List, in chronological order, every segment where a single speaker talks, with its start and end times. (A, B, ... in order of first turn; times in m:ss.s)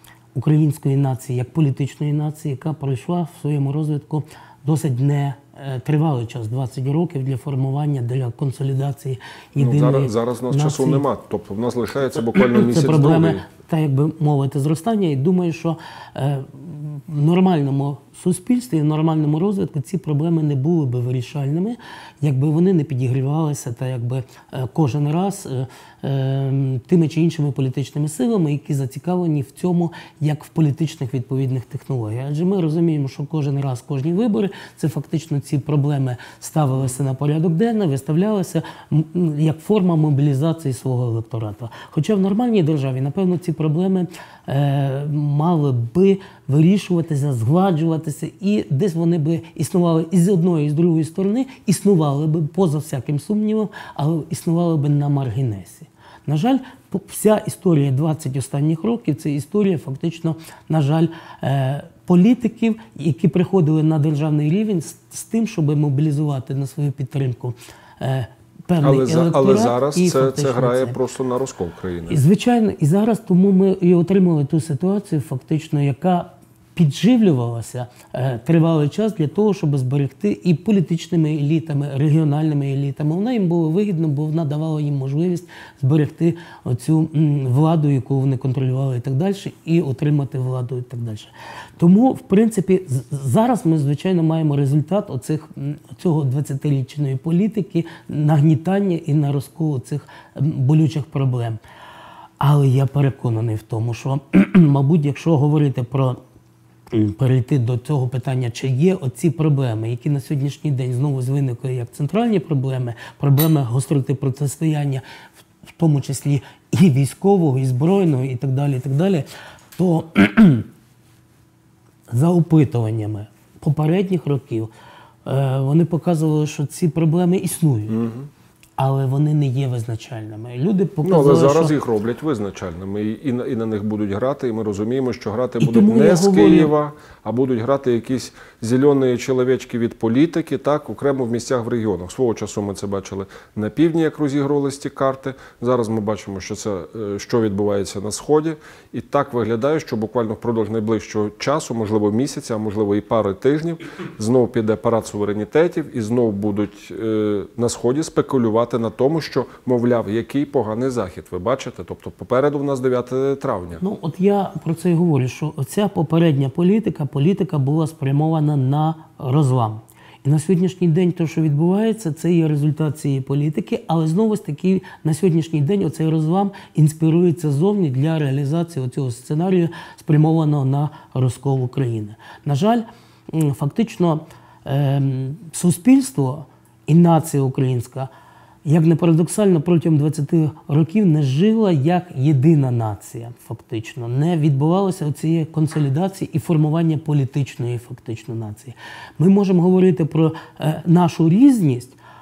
0:00.3-0:11.0 A
0:09.6-0:13.4 B
0:12.6-1:11.0 A
1:08.8-1:12.2 B
1:12.1-1:41.6 A
1:42.4-1:46.2 A
1:46.9-1:55.0 A
1:55.8-2:00.7 A
2:02.1-2:04.7 A
2:05.2-2:08.0 A
2:07.9-2:08.3 B
2:08.8-2:11.7 A
2:11.0-2:43.8 B
2:15.6-2:16.7 A
2:43.8-3:08.1 A
3:08.6-3:22.0 A